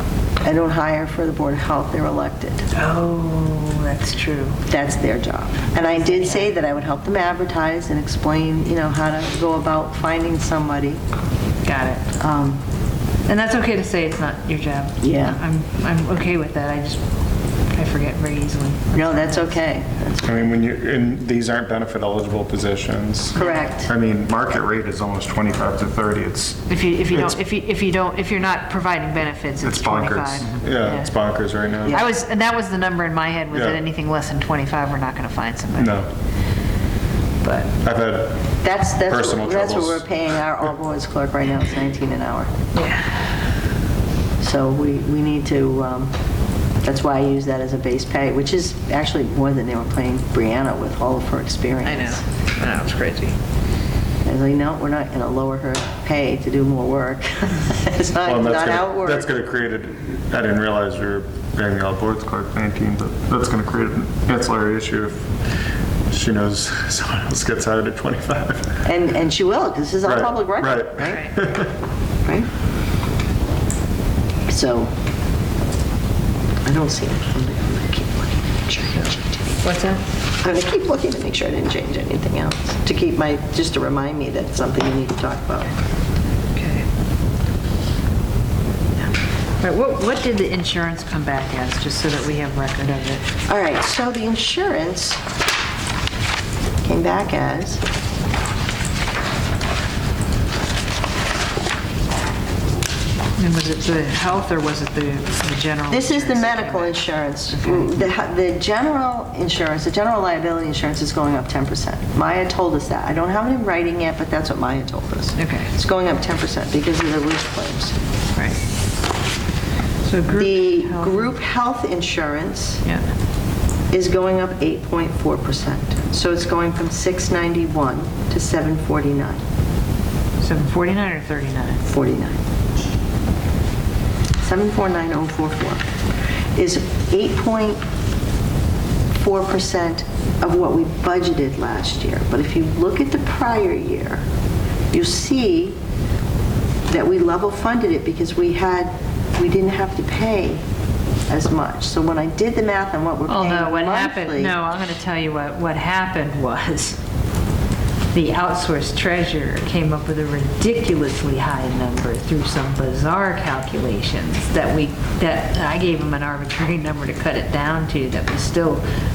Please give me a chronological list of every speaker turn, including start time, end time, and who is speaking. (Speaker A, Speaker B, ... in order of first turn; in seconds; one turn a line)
Speaker A: 0.4-2.6
Speaker B: 2.7-4.6
Speaker A: 4.7-11.0
Speaker B: 5.9-6.5
Speaker B: 11.6-12.6
Speaker B: 13.2-17.0
Speaker A: 15.0-15.4
Speaker B: 17.7-19.6
Speaker A: 18.9-20.4
Speaker C: 20.2-27.3
Speaker B: 23.4-23.6
Speaker A: 23.4-23.9
Speaker B: 26.7-31.1
Speaker C: 29.6-32.0
Speaker B: 31.9-36.0
Speaker C: 33.5-33.8
Speaker C: 35.7-36.1
Speaker B: 37.4-37.7
Speaker C: 37.8-38.5
Speaker A: 38.6-42.5
Speaker C: 39.0-40.2
Speaker B: 42.7-43.4
Speaker A: 44.4-46.1
Speaker A: 46.8-52.2
Speaker B: 51.8-53.4
Speaker A: 54.2-59.3
Speaker C: 58.2-65.3
Speaker C: 66.1-68.8
Speaker A: 68.8-71.2
Speaker C: 70.0-71.8
Speaker B: 71.0-71.3
Speaker A: 74.5-74.9
Speaker A: 76.6-79.6
Speaker B: 79.6-80.0
Speaker A: 80.4-85.7
Speaker B: 86.5-86.8
Speaker B: 89.6-93.3
Speaker A: 93.5-95.2
Speaker A: 96.8-97.8
Speaker B: 103.4-107.0
Speaker A: 105.9-118.0
Speaker B: 115.4-115.7
Speaker B: 120.0-121.3
Speaker A: 120.3-122.8
Speaker A: 123.9-129.4
Speaker B: 130.4-131.8
Speaker A: 131.8-132.4
Speaker A: 134.4-135.9
Speaker A: 136.5-137.8
Speaker A: 139.2-144.2
Speaker A: 144.9-145.8
Speaker A: 146.9-150.6
Speaker A: 151.3-154.5
Speaker B: 153.3-157.0
Speaker B: 158.1-168.8